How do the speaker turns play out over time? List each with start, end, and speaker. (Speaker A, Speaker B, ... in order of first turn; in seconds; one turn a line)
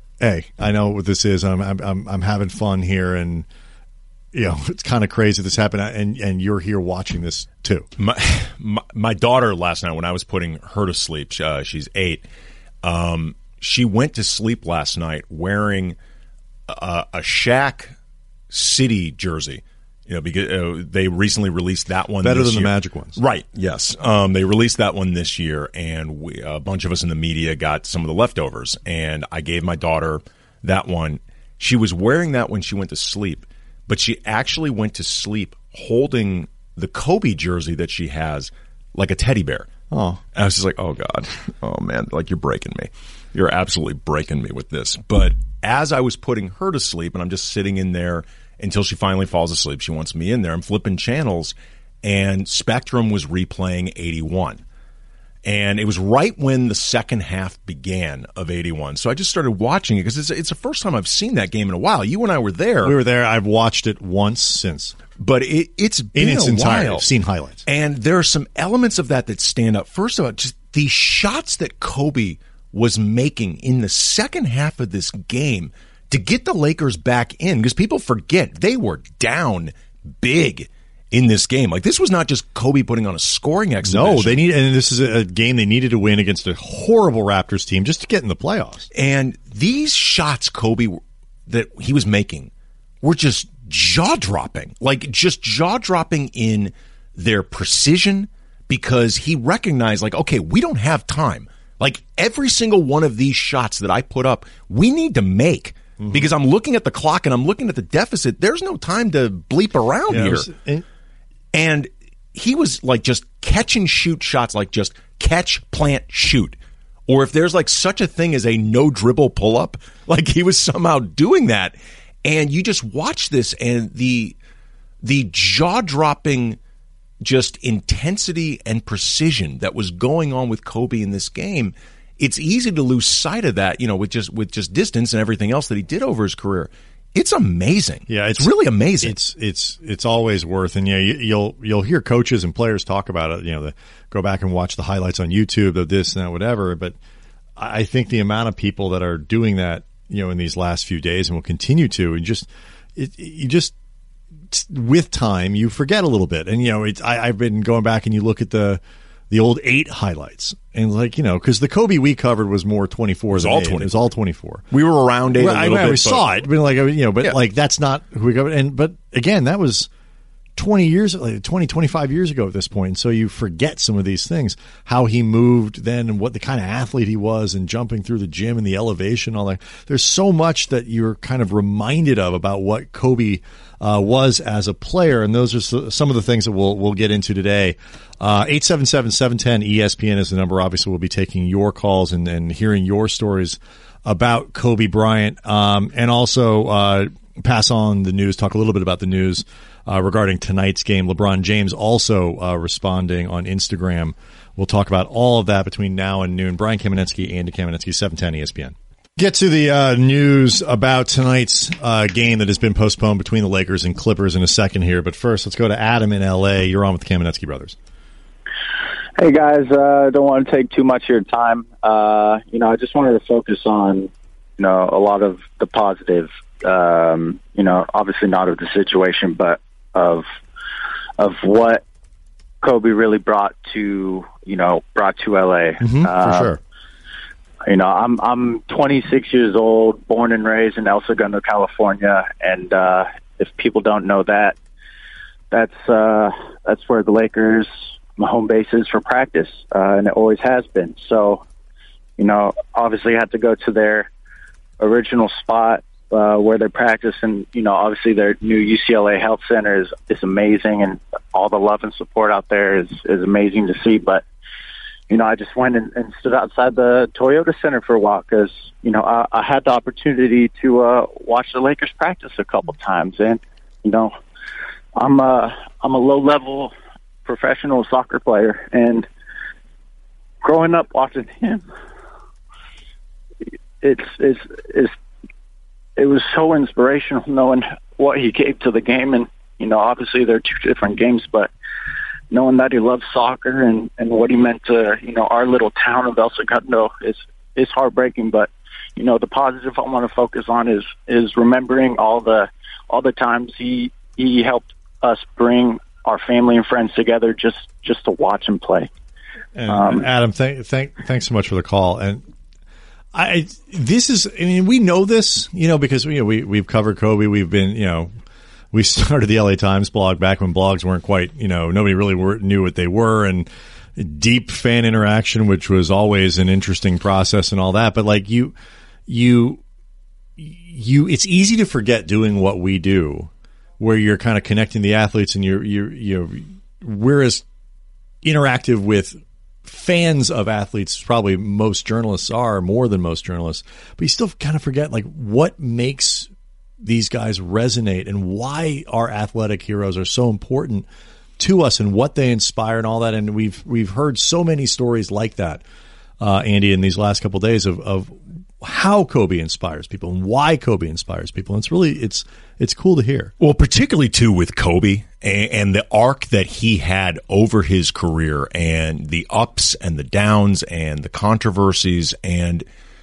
Speaker A: 0.2-3.5
Speaker A: 4.3-7.9
Speaker B: 8.0-12.2
Speaker B: 12.8-16.0
Speaker B: 16.7-17.9
Speaker B: 18.5-39.7
Speaker A: 22.2-23.2
Speaker A: 39.9-40.2
Speaker B: 40.3-54.6
Speaker B: 55.5-63.0
Speaker A: 62.8-65.0
Speaker B: 65.2-67.0
Speaker A: 66.2-67.7
Speaker B: 67.7-84.4
Speaker A: 83.8-88.9
Speaker B: 88.9-92.5
Speaker B: 93.0-110.5
Speaker A: 106.0-106.3
Speaker A: 110.1-110.8
Speaker B: 111.5-124.4
Speaker B: 125.0-126.6
Speaker B: 127.2-139.2
Speaker A: 138.1-147.0
Speaker A: 147.6-153.7
Speaker A: 154.5-164.6
Speaker B: 163.3-163.9
Speaker B: 164.7-166.3
Speaker A: 165.4-169.9
Speaker A: 170.6-217.8
Speaker C: 219.2-230.2
Speaker C: 231.2-231.8
Speaker C: 232.6-236.5
Speaker A: 235.8-236.6
Speaker C: 237.7-244.6
Speaker C: 245.5-251.4
Speaker C: 252.2-254.1
Speaker C: 254.8-264.2
Speaker C: 265.1-274.1
Speaker C: 275.0-276.7
Speaker C: 277.2-279.1
Speaker C: 280.4-281.6
Speaker C: 283.8-284.9
Speaker C: 286.0-291.5
Speaker C: 292.3-308.9
Speaker A: 309.6-312.2
Speaker C: 309.7-310.1
Speaker A: 313.1-318.1
Speaker A: 318.7-328.5
Speaker A: 329.1-329.6
Speaker A: 330.4-337.4
Speaker A: 338.2-346.3
Speaker A: 346.8-350.9
Speaker A: 351.4-355.6
Speaker A: 356.2-363.3
Speaker B: 363.4-372.6